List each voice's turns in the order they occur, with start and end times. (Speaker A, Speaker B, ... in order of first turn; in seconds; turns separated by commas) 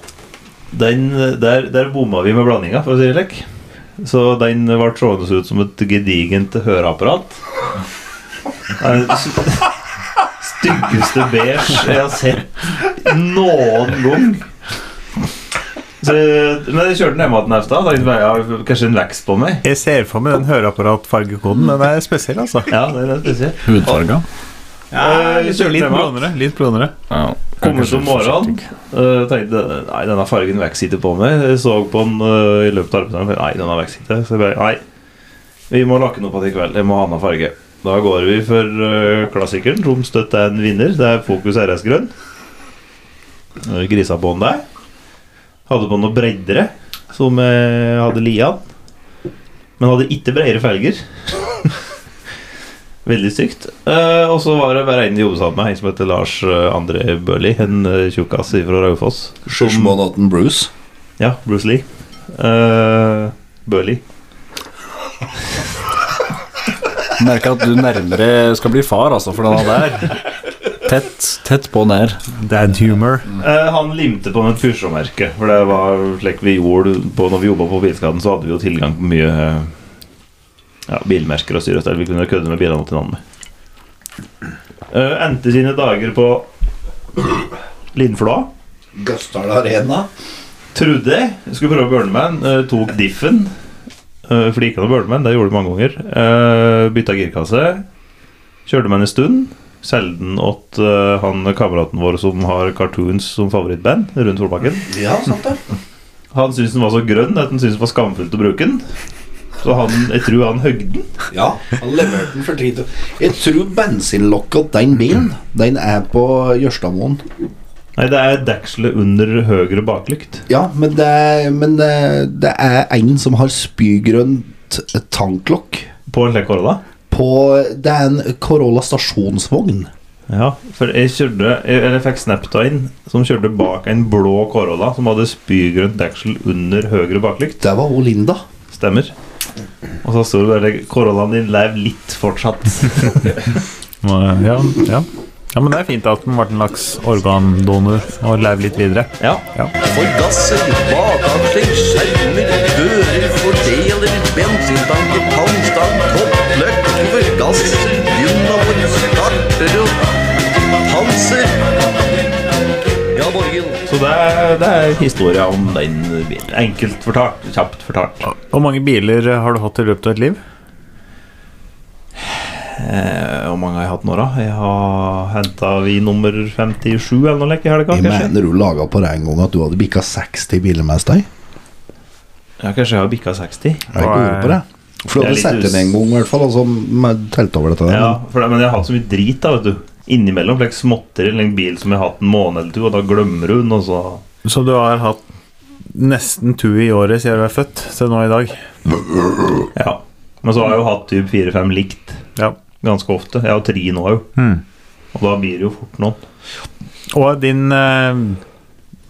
Speaker A: 0.7-3.5, Speaker A: 4.0-7.4, Speaker A: 8.8-9.7, Speaker A: 10.4-14.4, Speaker A: 16.0-19.6, Speaker B: 19.6-22.7, Speaker A: 22.7-24.0, Speaker C: 23.6-24.2, Speaker B: 24.9-26.9, Speaker A: 24.9-26.1, Speaker C: 27.1-28.6, Speaker A: 27.6-34.8, Speaker A: 35.7-42.1, Speaker A: 43.6-44.6, Speaker A: 45.7-48.6, Speaker A: 49.8-51.7, Speaker A: 53.0-60.0, Speaker D: 59.5-60.7, Speaker A: 61.2-64.0, Speaker C: 67.2-70.2, Speaker C: 70.8-72.2, Speaker B: 72.3-73.3, Speaker A: 73.4-79.7, Speaker A: 80.9-83.2, Speaker A: 84.9-86.5, Speaker A: 87.9-88.5, Speaker D: 88.9-90.1, Speaker A: 90.7-93.5, Speaker A: 94.3-97.8, Speaker A: 98.7-104.9, Speaker D: 104.9-105.6, Speaker A: 106.3-108.8, Speaker A: 109.6-111.1, Speaker D: 111.3-117.2, Speaker A: 118.0-120.4, Speaker D: 120.5-125.9, Speaker A: 126.1-126.8, Speaker D: 127.1-129.9, Speaker A: 130.3-137.6, Speaker D: 137.6-138.4, Speaker A: 138.7-139.1, Speaker A: 140.0-143.4, Speaker B: 144.0-149.7, Speaker E: 149.9-159.9, Speaker E: 160.9-161.5, Speaker E: 163.2-163.7, Speaker A: 163.9-168.3, Speaker B: 168.2-170.4, Speaker A: 172.2-178.3, Speaker D: 177.9-181.2, Speaker A: 182.6-183.9, Speaker D: 183.9-188.2, Speaker B: 183.9-184.6, Speaker A: 185.2-185.9, Speaker A: 187.9-194.2, Speaker B: 194.4-195.2, Speaker B: 195.9-198.6, Speaker A: 199.7-202.2, Speaker A: 202.8-204.3, Speaker B: 204.4-204.6, Speaker A: 205.1-206.2, Speaker B: 207.1-208.4